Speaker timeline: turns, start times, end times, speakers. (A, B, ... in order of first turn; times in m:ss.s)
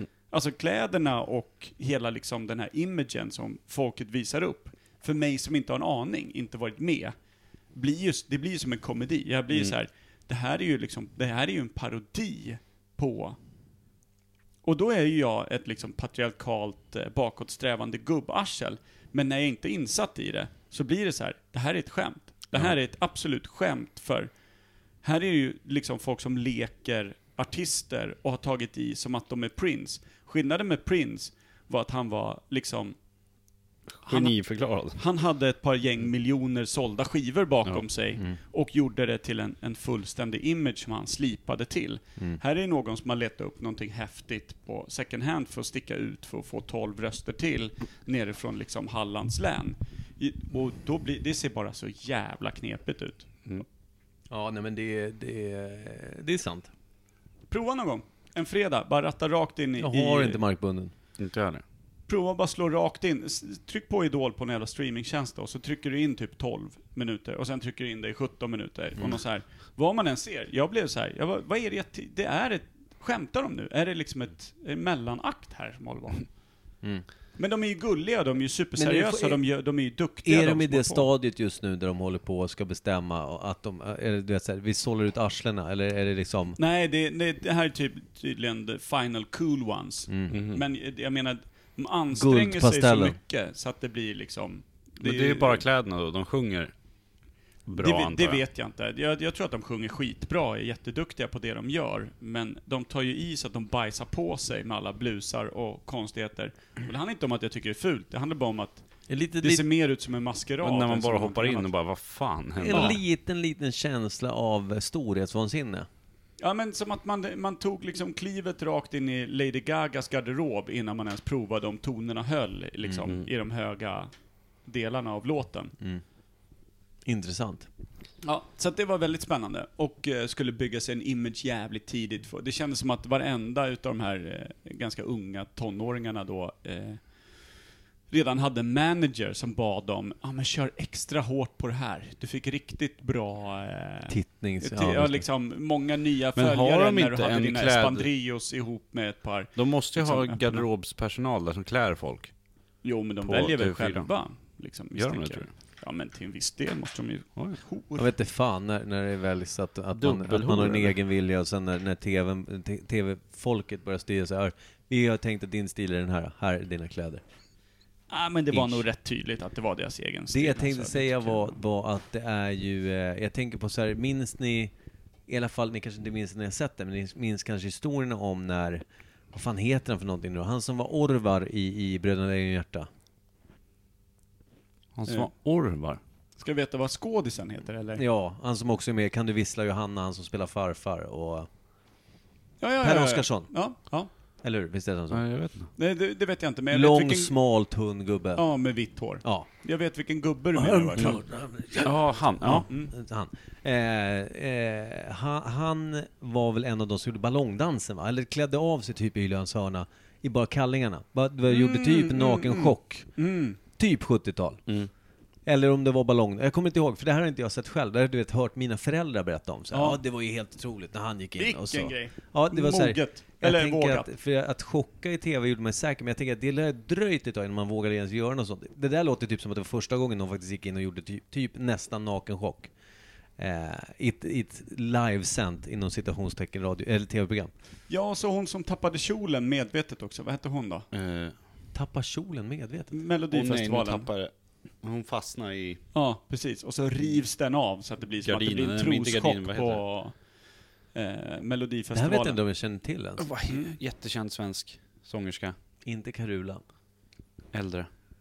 0:00.3-0:07.1 A
0:07.7-0:13.4 A
0:14.6-0:24.3 A
0:25.0-0:33.0 A
0:34.0-0:35.0 B
0:34.0-0:34.4 A
0:34.9-0:53.3 A
0:54.3-0:56.7 C
0:57.5-1:00.4 A
0:59.8-1:00.9 C
1:01.2-1:01.6 B
1:02.1-1:16.3 A
1:17.4-1:21.1 A
1:18.8-1:19.4 C
1:20.2-1:26.6 C
1:26.6-1:35.6 A
1:30.1-1:30.3 C
1:30.3-1:30.6 B
1:32.1-1:33.2 C
1:35.0-1:36.7 B
1:37.6-1:38.4 B
1:37.8-1:48.8 A
1:49.1-1:49.6 C
1:49.4-1:51.7 A
1:50.6-1:53.0 B
1:52.6-1:55.9 C
1:52.7-1:53.0 A
1:56.4-2:04.1 A
2:04.6-2:05.7 A
2:07.0-2:07.7 C
2:08.2-2:17.0 A
2:18.1-2:30.6 A
2:24.1-2:25.2 C
2:26.4-2:28.1 B
2:29.6-2:32.3 B
2:32.8-2:38.1 A
2:33.2-2:34.1 B
2:34.9-2:35.5 B
2:38.0-2:47.2 C
2:40.0-2:41.0 B
2:48.1-2:51.5 A
2:48.5-2:48.8 C
2:50.3-2:54.7 C
2:55.3-3:02.9 C
3:04.9-3:06.0 B
3:06.4-3:08.0 A
3:08.0-3:11.5 C
3:12.6-3:14.1 A
3:12.8-3:13.5 C
3:14.4-3:15.2 C
3:15.1-3:15.7 B
3:15.8-3:17.3 A
3:16.7-3:18.4 C
3:18.4-3:21.2 A
3:19.2-3:19.5 C
3:20.6-3:33.1 C
3:21.8-3:22.7 B
3:31.5-3:33.6 A
3:33.7-3:34.6 C
3:35.4-3:52.7 C
3:39.7-3:40.0 A
3:41.4-3:44.1 A
3:53.4-3:57.5 C
3:57.9-4:00.9 A
4:00.9-4:01.3 B
4:01.7-4:02.9 C
4:02.9-4:04.1 A
4:03.3-4:05.8 B
4:05.9-4:10.2 A
4:08.2-4:09.8 B
4:10.9-4:12.4 A
4:11.9-4:13.2 C
4:13.2-4:15.5 B
4:13.5-4:13.8 A
4:15.8-4:16.6 C
4:17.5-4:17.9 B